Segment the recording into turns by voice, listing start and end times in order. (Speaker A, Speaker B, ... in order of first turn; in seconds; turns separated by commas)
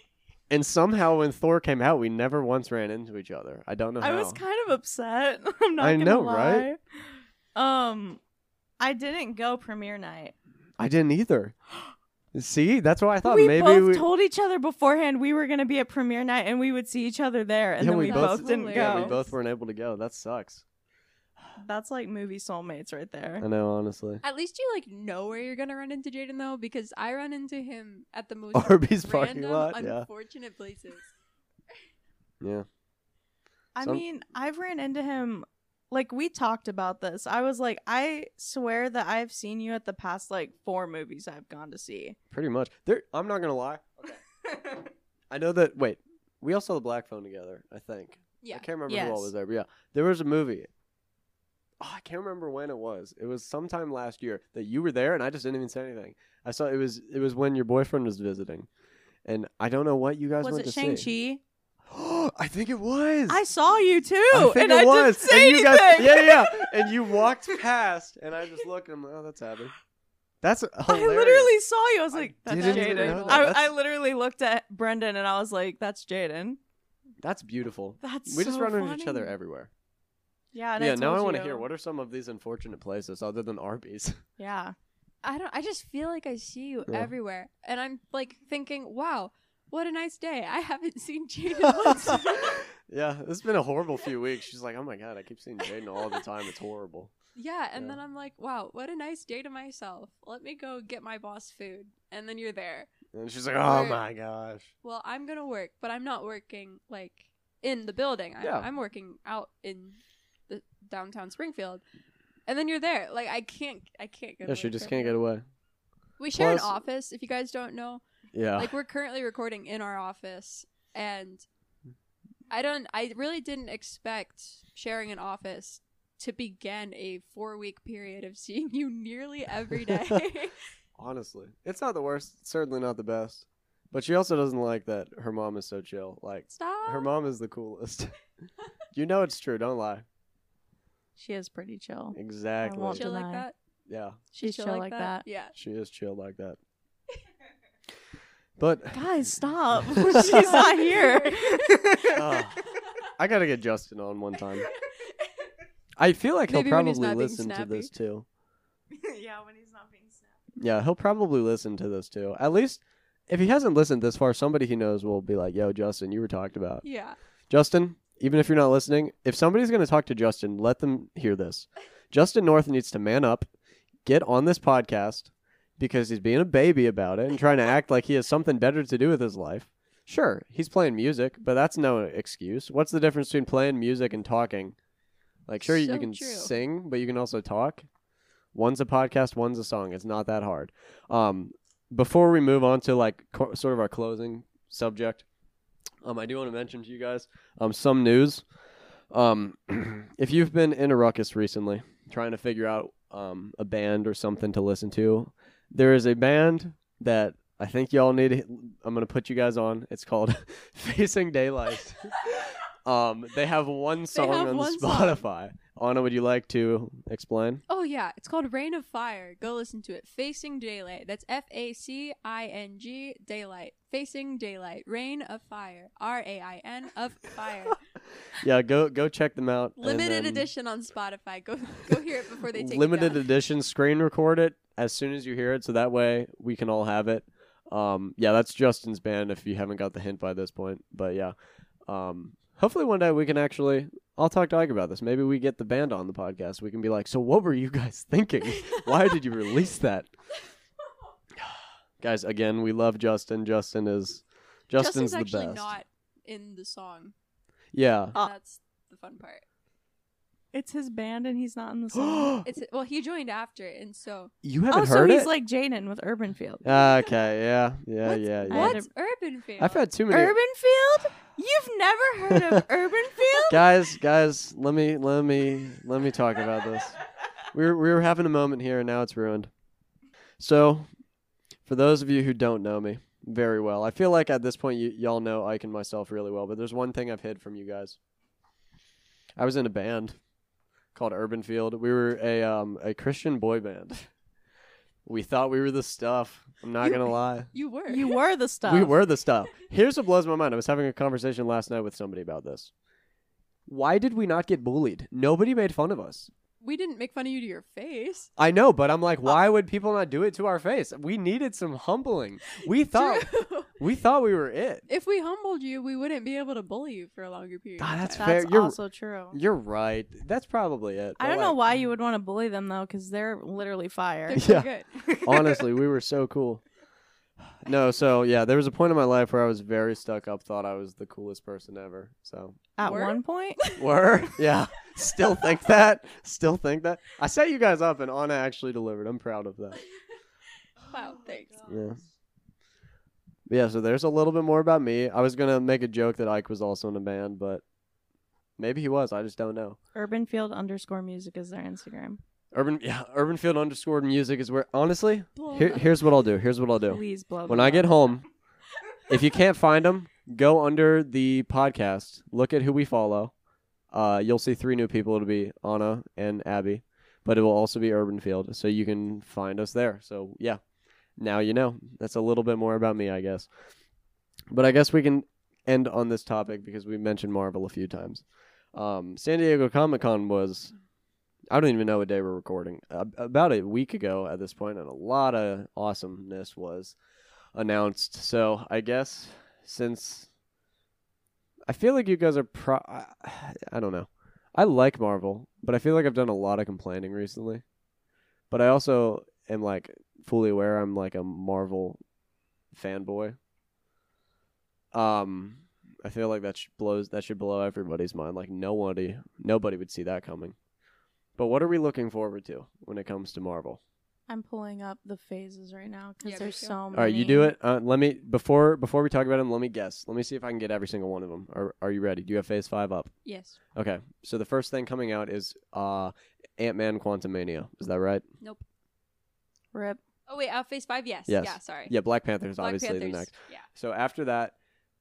Speaker A: 0.5-4.4, Speaker B: 4.0-8.2, Speaker A: 5.8-6.7, Speaker B: 8.8-10.3, Speaker A: 10.8-11.6, Speaker A: 12.3-14.1, Speaker B: 13.2-19.1, Speaker A: 17.8-20.6, Speaker C: 18.1-19.3, Speaker B: 21.6-23.4, Speaker A: 23.4-24.2, Speaker C: 24.2-31.1, Speaker A: 28.5-30.1, Speaker A: 32.4-32.6, Speaker B: 33.8-42.1, Speaker A: 42.3-44.2, Speaker B: 44.5-44.9, Speaker A: 45.3-50.7, Speaker B: 48.9-49.3, Speaker A: 51.8-58.7, Speaker A: 59.2-61.1, Speaker B: 60.4-61.4, Speaker A: 61.9-63.4, Speaker B: 63.3-67.5, Speaker A: 64.3-69.7, Speaker A: 70.4-71.5, Speaker B: 70.9-76.6, Speaker A: 72.1-73.7, Speaker C: 72.5-73.5, Speaker A: 77.2-79.7, Speaker B: 78.0-79.3, Speaker B: 80.5-81.7, Speaker A: 80.8-84.2, Speaker B: 84.4-84.7, Speaker C: 85.2-92.6, Speaker A: 91.6-97.1, Speaker C: 97.3-102.9, Speaker A: 103.1-104.7, Speaker C: 103.6-104.0, Speaker C: 104.8-111.8, Speaker A: 108.4-108.7, Speaker C: 112.5-115.1, Speaker A: 114.5-115.5, Speaker C: 116.2-118.0, Speaker A: 116.3-116.7, Speaker A: 118.3-118.7, Speaker C: 118.5-121.5, Speaker C: 122.5-130.6, Speaker A: 131.0-138.2, Speaker C: 136.5-137.1, Speaker A: 138.9-140.0, Speaker B: 141.2-143.4, Speaker A: 142.1-143.1, Speaker C: 142.9-143.6, Speaker A: 143.9-144.2, Speaker B: 144.3-145.2, Speaker C: 144.4-145.5, Speaker A: 145.5-146.6, Speaker A: 148.6-150.7, Speaker B: 148.9-152.4, Speaker C: 150.2-152.2, Speaker A: 152.1-154.7, Speaker A: 156.0-158.2, Speaker C: 156.5-157.9, Speaker B: 158.9-160.4, Speaker A: 160.6-166.8, Speaker C: 166.8-167.2, Speaker A: 167.5-173.5, Speaker A: 174.1-184.8, Speaker A: 185.5-187.8, Speaker C: 185.6-186.5, Speaker A: 188.5-195.2, Speaker A: 196.0-198.4, Speaker A: 199.1-217.6, Speaker C: 214.1-215.2, Speaker C: 217.7-227.8, Speaker A: 228.3-230.5, Speaker C: 229.8-233.2, Speaker A: 232.5-241.3, Speaker A: 241.9-250.1, Speaker C: 248.5-249.2, Speaker A: 251.4-255.7, Speaker C: 254.7-257.1, Speaker A: 257.7-258.1, Speaker C: 258.1-259.4, Speaker B: 260.5-262.4, Speaker A: 262.0-262.4, Speaker C: 262.4-264.3, Speaker A: 264.4-265.3, Speaker B: 264.7-266.9, Speaker A: 266.6-268.8, Speaker B: 268.1-268.9, Speaker C: 268.5-269.8, Speaker A: 269.6-270.4, Speaker B: 270.1-273.7, Speaker A: 272.3-272.6, Speaker A: 273.5-279.5, Speaker A: 280.4-280.9, Speaker A: 281.6-288.0, Speaker A: 289.4-290.1, Speaker A: 290.9-294.1, Speaker A: 295.1-297.5, Speaker C: 297.5-298.2, Speaker B: 297.9-299.0, Speaker A: 298.7-302.7, Speaker A: 303.7-306.3, Speaker C: 306.6-308.3, Speaker A: 308.4-314.8, Speaker C: 312.5-313.7, Speaker C: 314.9-318.3, Speaker A: 317.8-318.8, Speaker B: 318.2-319.4, Speaker A: 319.3-321.6, Speaker B: 321.2-325.6, Speaker C: 324.3-324.9, Speaker A: 324.4-324.7, Speaker A: 325.2-326.6, Speaker A: 327.6-332.6, Speaker B: 332.8-333.6, Speaker C: 332.8-333.8, Speaker A: 333.7-339.8, Speaker C: 340.8-341.6, Speaker B: 340.9-341.8, Speaker A: 341.7-342.0, Speaker A: 343.5-347.6, Speaker A: 348.6-349.8, Speaker B: 349.9-352.2, Speaker A: 352.5-358.2, Speaker C: 355.4-356.0, Speaker B: 356.8-358.2, Speaker A: 359.1-363.3, Speaker A: 363.9-370.6, Speaker A: 371.2-373.5, Speaker A: 374.5-378.2, Speaker A: 378.7-380.7, Speaker A: 381.5-386.9, Speaker A: 387.5-390.3, Speaker A: 391.7-397.6, Speaker A: 398.5-402.0, Speaker A: 402.7-403.4, Speaker A: 404.9-410.6, Speaker A: 411.4-413.8, Speaker B: 414.3-417.5, Speaker C: 416.2-416.8, Speaker A: 416.9-423.1, Speaker C: 423.2-423.6, Speaker A: 423.7-428.2, Speaker B: 429.7-430.0, Speaker C: 430.3-431.9, Speaker A: 431.3-434.5, Speaker C: 432.6-433.7